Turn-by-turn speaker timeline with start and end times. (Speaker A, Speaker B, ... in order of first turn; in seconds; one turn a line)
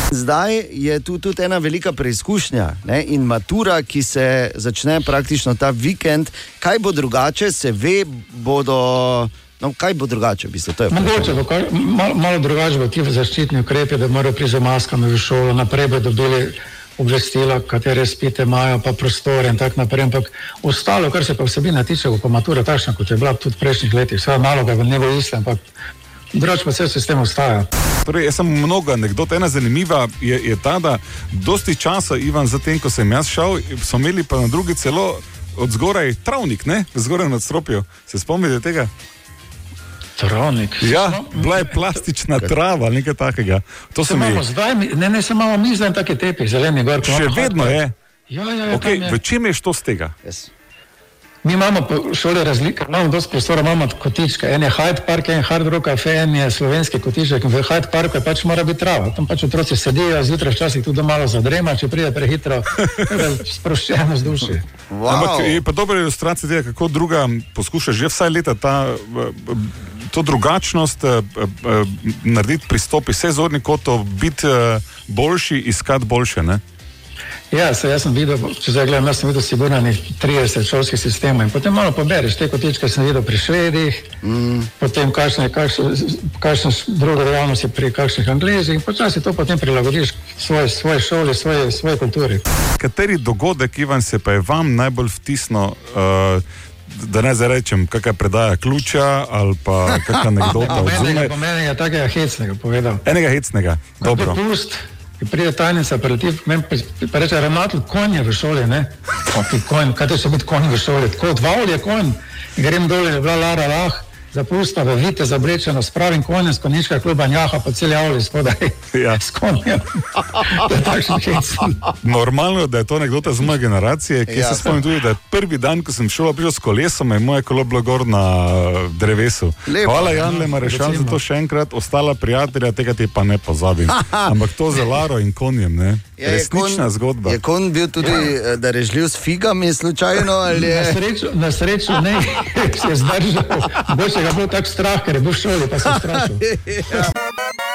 Speaker A: 0.1-11.4
Speaker B: 10.9-25.7
Speaker B: 26.3-27.7
Speaker C: 28.0-38.9
Speaker B: 40.2-41.8
Speaker C: 40.8-44.4
Speaker B: 44.0-49.2
Speaker C: 47.0-47.9
Speaker C: 48.7-50.1
Speaker A: 50.2-50.5
Speaker B: 51.4-64.6
Speaker A: 64.9-65.6
Speaker C: 65.1-76.6
Speaker B: 77.5-84.1
Speaker A: 84.2-84.7
Speaker B: 84.8-92.4
Speaker C: 92.8-101.3
Speaker B: 100.4-103.0
Speaker C: 103.0-104.4
Speaker B: 104.0-121.9
Speaker C: 118.9-119.2
Speaker C: 122.0-137.4
Speaker A: 124.3-124.8
Speaker A: 129.7-130.2
Speaker B: 130.1-131.2
Speaker A: 133.9-134.3
Speaker A: 136.2-141.0
Speaker B: 140.5-146.4
Speaker A: 146.3-147.0